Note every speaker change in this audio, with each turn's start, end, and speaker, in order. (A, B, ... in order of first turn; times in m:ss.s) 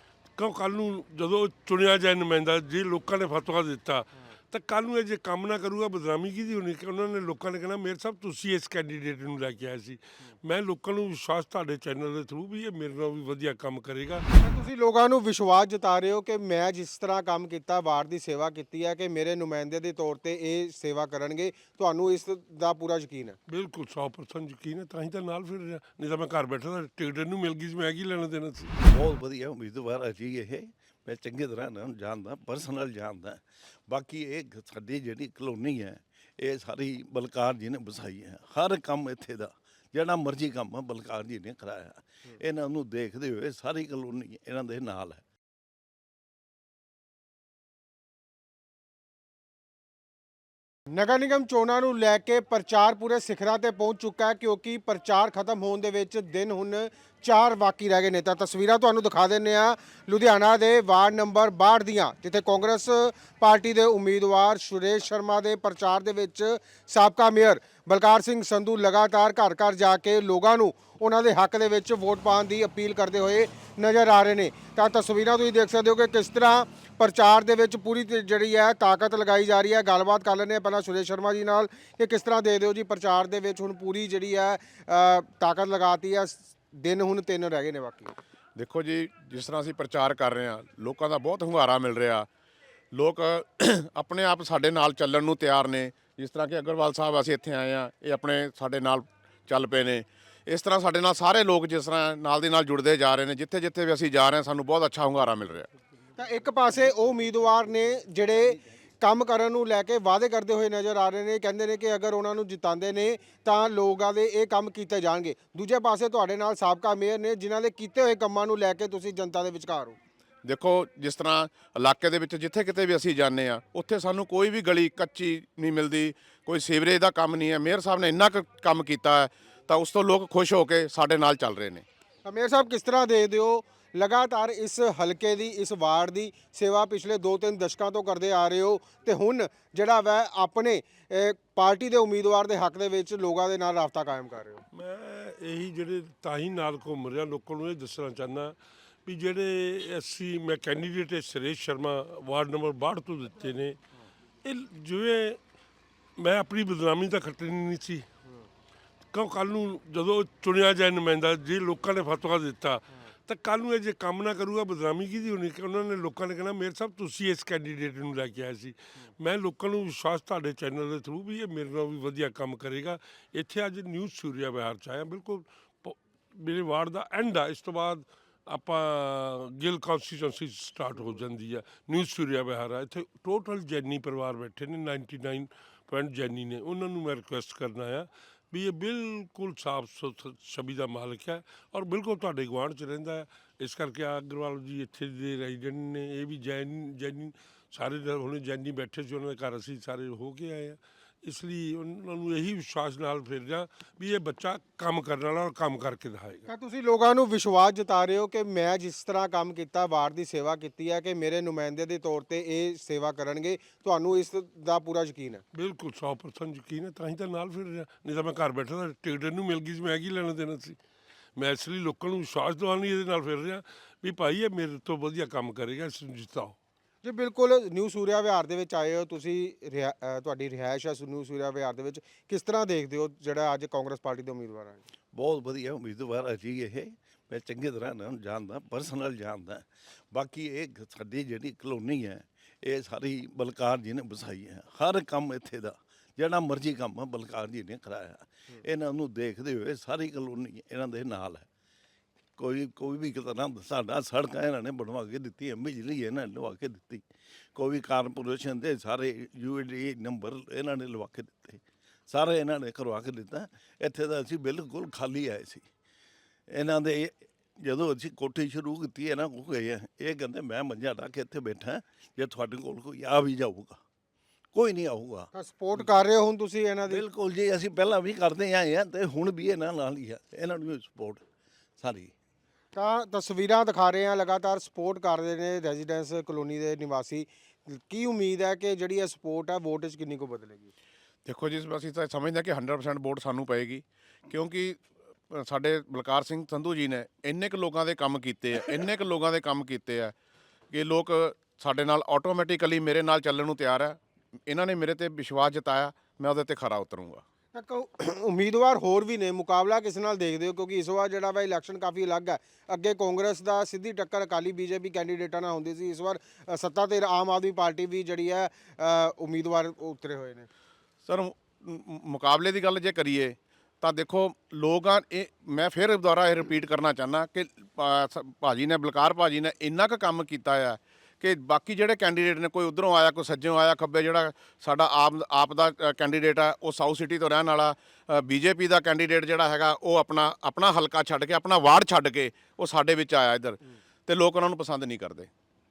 0:00.4-0:14.2 A
0:14.3-0:23.4 B
0:23.5-0:28.7 A
0:28.8-0:45.2 C
0:50.9-1:28.1 B
1:28.6-1:32.3 D
1:32.9-1:45.7 D
1:46.2-2:00.0 B
2:00.4-2:11.8 D
2:12.2-2:24.6 B
2:24.7-2:33.8 A
2:34.4-2:35.4 A
2:36.2-2:38.1 A
2:39.1-3:26.4 A
3:26.5-3:35.4 B
3:35.5-3:40.8 A
3:41.4-3:46.6 A
3:47.0-3:54.8 B
3:55.1-4:11.5 C
4:12.4-4:17.0 C
4:17.5-4:25.6 C
4:26.5-4:33.8 C
4:34.5-4:35.9 C
4:35.3-4:37.0 B
4:36.9-4:41.2 C
4:41.8-4:42.1 C
4:42.7-4:50.7 B
4:51.2-4:54.8 D
4:55.3-5:00.1 D
5:00.7-5:07.2 D
5:07.5-5:20.5 B
5:21.0-5:45.3 D